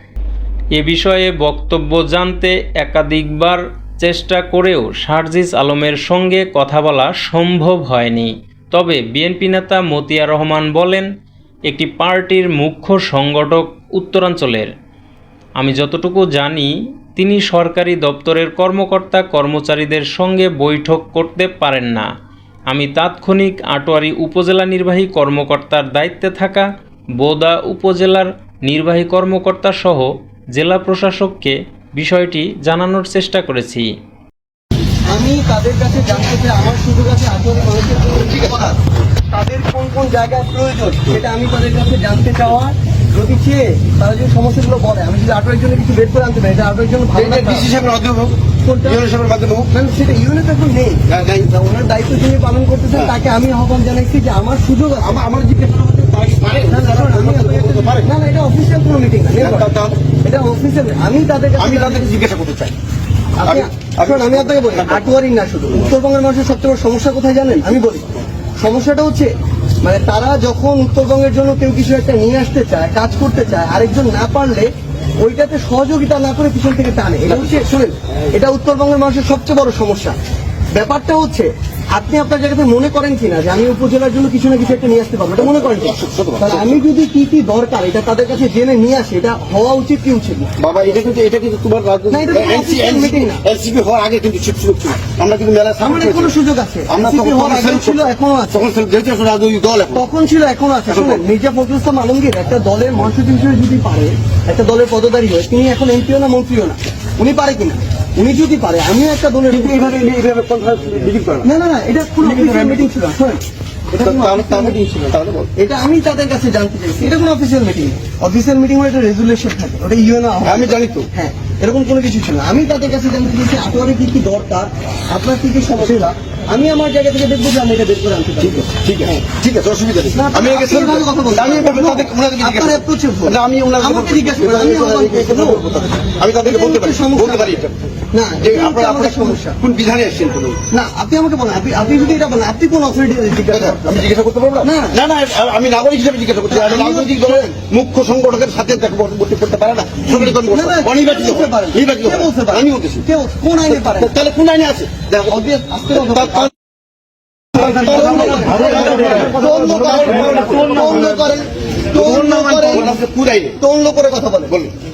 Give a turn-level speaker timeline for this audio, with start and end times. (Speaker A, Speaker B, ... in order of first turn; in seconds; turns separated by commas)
Speaker A: 0.7-11.1, Speaker A: 11.7-14.7, Speaker A: 15.6-22.1, Speaker A: 22.7-33.9, Speaker B: 35.0-38.8, Speaker B: 39.3-47.7, Speaker C: 47.1-49.7, Speaker B: 48.6-49.0, Speaker B: 49.7-55.2, Speaker C: 51.1-51.5, Speaker C: 55.0-58.1, Speaker B: 56.7-62.1, Speaker C: 59.4-60.0, Speaker C: 61.5-62.8, Speaker B: 63.4-80.2, Speaker C: 63.4-65.0, Speaker B: 80.7-90.5, Speaker C: 85.4-86.8, Speaker C: 90.6-96.3, Speaker B: 92.1-93.4, Speaker B: 95.8-98.6, Speaker C: 96.9-100.0, Speaker B: 99.9-109.9, Speaker C: 100.9-101.2, Speaker C: 109.5-111.5, Speaker B: 111.4-113.4, Speaker C: 112.2-112.9, Speaker B: 113.9-114.8, Speaker C: 113.9-115.5, Speaker B: 115.5-129.2, Speaker C: 120.4-121.1, Speaker C: 128.4-137.8, Speaker B: 130.1-135.6, Speaker B: 136.4-137.5, Speaker B: 138.1-139.6, Speaker C: 138.4-140.6, Speaker B: 140.7-144.0, Speaker C: 143.5-153.0, Speaker B: 144.6-145.0, Speaker B: 146.5-147.5, Speaker B: 150.1-154.2, Speaker C: 153.7-155.4, Speaker B: 155.2-156.5, Speaker C: 156.0-156.5, Speaker C: 157.6-161.3, Speaker B: 157.6-163.0, Speaker C: 161.9-163.6, Speaker B: 163.6-164.6